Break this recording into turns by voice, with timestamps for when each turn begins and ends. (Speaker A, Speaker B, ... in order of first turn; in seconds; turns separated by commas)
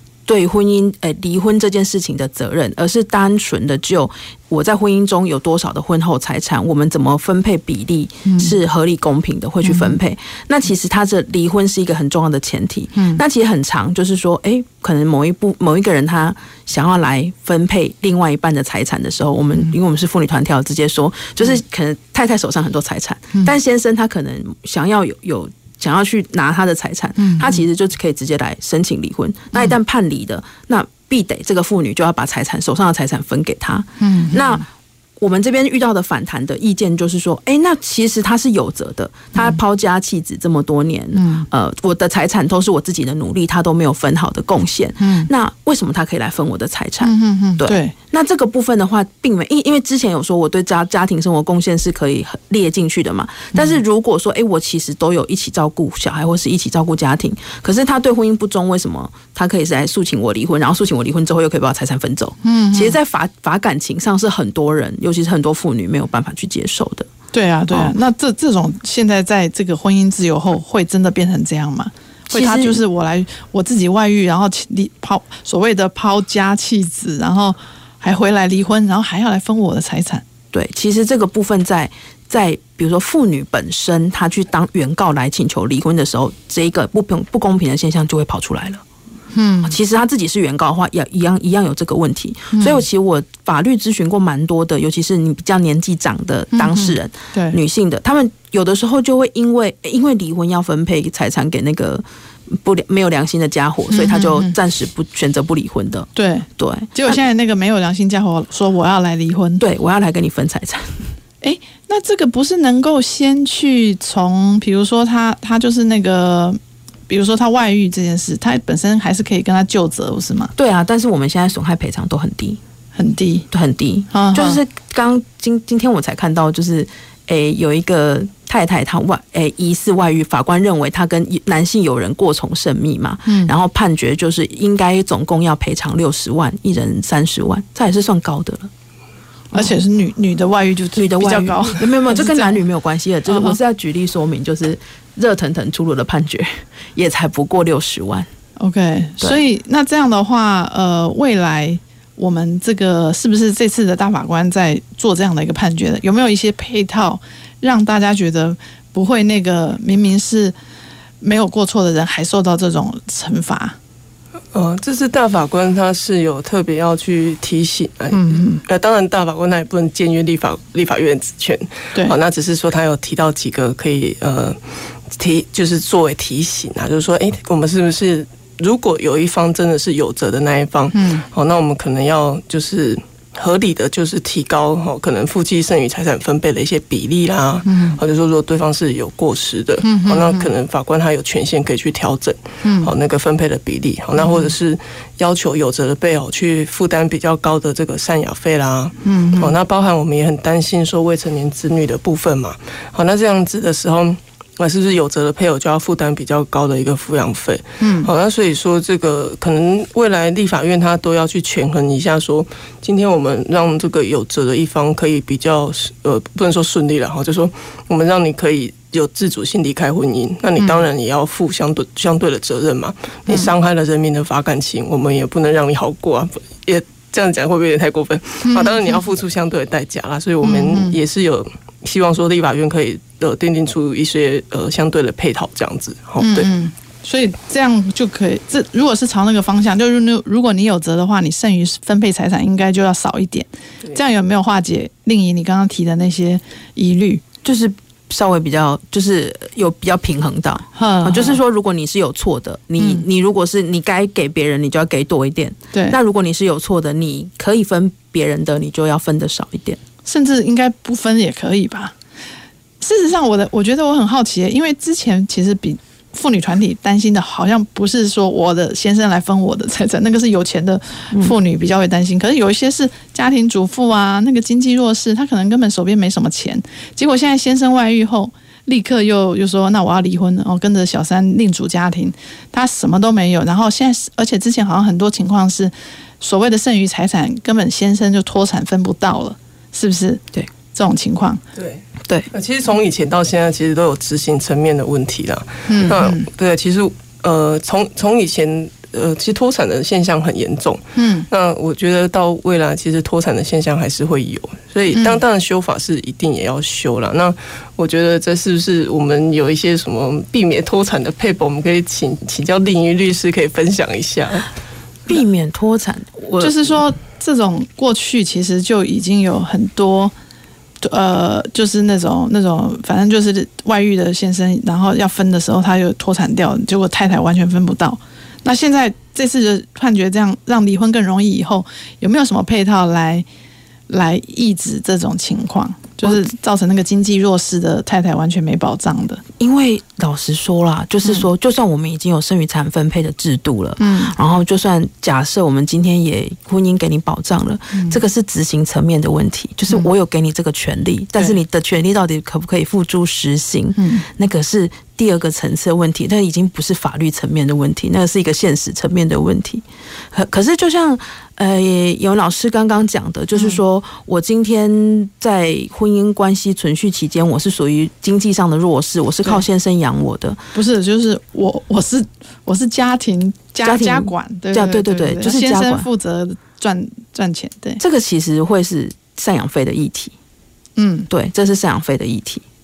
Speaker A: 0.3-34.7, Speaker B: 8.2-8.6, Speaker B: 9.6-10.0, Speaker B: 12.9-13.2, Speaker B: 27.2-27.6, Speaker B: 34.0-34.5, Speaker A: 35.2-67.1, Speaker B: 39.4-39.6, Speaker B: 41.1-41.5, Speaker B: 45.0-45.3, Speaker B: 47.0-47.9, Speaker B: 62.4-63.0, Speaker B: 67.3-80.2, Speaker A: 72.3-72.8, Speaker A: 80.5-88.8, Speaker B: 89.3-89.8, Speaker A: 89.7-107.2, Speaker B: 92.5-92.8, Speaker B: 96.5-97.6, Speaker B: 103.9-104.5, Speaker B: 106.2-109.6, Speaker A: 109.6-111.0, Speaker B: 111.4-120.5, Speaker A: 120.6-122.6, Speaker B: 123.0-123.5, Speaker A: 123.5-138.7, Speaker B: 124.1-124.6, Speaker B: 133.3-133.5, Speaker B: 139.5-142.6, Speaker A: 141.0-148.3, Speaker B: 143.3-143.6, Speaker B: 148.6-160.6, Speaker B: 161.2-163.8, Speaker C: 164.5-174.6, Speaker B: 168.1-168.6, Speaker C: 175.1-236.5, Speaker B: 180.9-181.2, Speaker B: 187.7-188.0, Speaker B: 189.8-190.5, Speaker B: 192.6-192.9, Speaker B: 194.2-194.5, Speaker B: 199.0-199.5, Speaker B: 207.8-208.1, Speaker B: 228.4-229.0, Speaker B: 230.4-231.0, Speaker B: 236.2-247.2, Speaker A: 247.4-259.8, Speaker B: 250.8-251.4, Speaker B: 260.1-261.9, Speaker B: 262.8-291.4, Speaker C: 291.6-314.5, Speaker B: 295.7-296.3, Speaker B: 301.0-301.3, Speaker B: 304.9-305.2, Speaker A: 315.1-316.8, Speaker B: 316.4-320.1, Speaker B: 320.8-333.3, Speaker B: 333.9-339.2, Speaker A: 339.4-370.4, Speaker B: 343.8-344.1, Speaker B: 353.8-354.1, Speaker B: 363.4-363.6, Speaker B: 370.6-377.8, Speaker A: 373.6-375.9, Speaker A: 377.8-380.1, Speaker B: 380.8-381.1, Speaker A: 381.1-382.4